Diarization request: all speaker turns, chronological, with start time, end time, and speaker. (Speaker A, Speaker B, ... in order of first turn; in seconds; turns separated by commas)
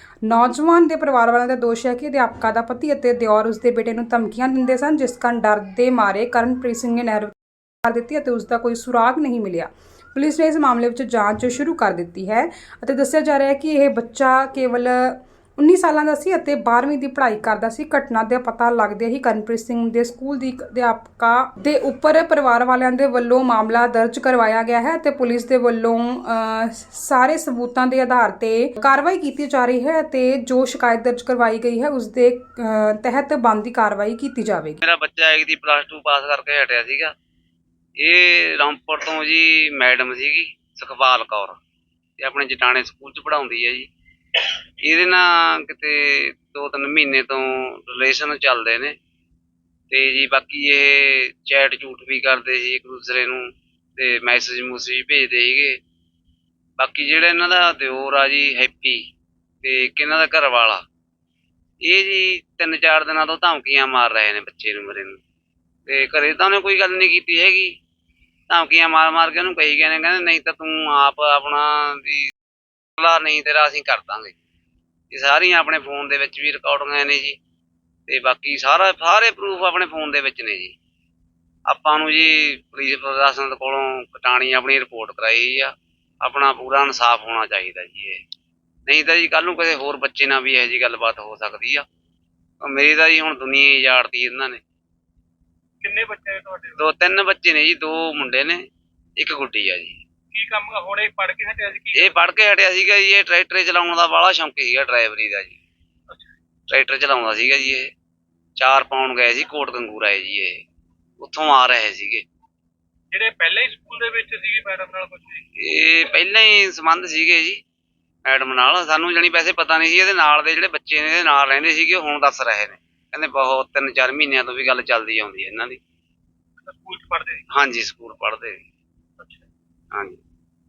Speaker A: 0.2-34.8, Speaker B: 34.8-37.1, Speaker B: 38.0-41.6, Speaker B: 42.2-43.9, Speaker B: 44.8-49.0, Speaker B: 49.9-55.8, Speaker B: 56.8-59.1, Speaker B: 59.6-60.8, Speaker B: 61.8-65.2, Speaker B: 65.9-67.7, Speaker B: 68.5-72.3, Speaker B: 73.0-74.3, Speaker B: 75.1-77.4, Speaker B: 78.1-80.8, Speaker B: 81.7-88.2, Speaker B: 88.9-91.8, Speaker B: 92.6-94.6, Speaker C: 95.8-96.8, Speaker B: 96.8-98.6, Speaker B: 99.2-100.0, Speaker C: 100.3-102.2, Speaker B: 102.0-105.6, Speaker B: 106.7-107.9, Speaker B: 108.6-110.6, Speaker B: 111.2-112.2, Speaker C: 113.1-115.5, Speaker B: 115.6-117.6, Speaker B: 118.2-125.8, Speaker C: 126.6-127.4, Speaker B: 127.5-128.6, Speaker C: 129.2-129.5, Speaker B: 129.9-130.2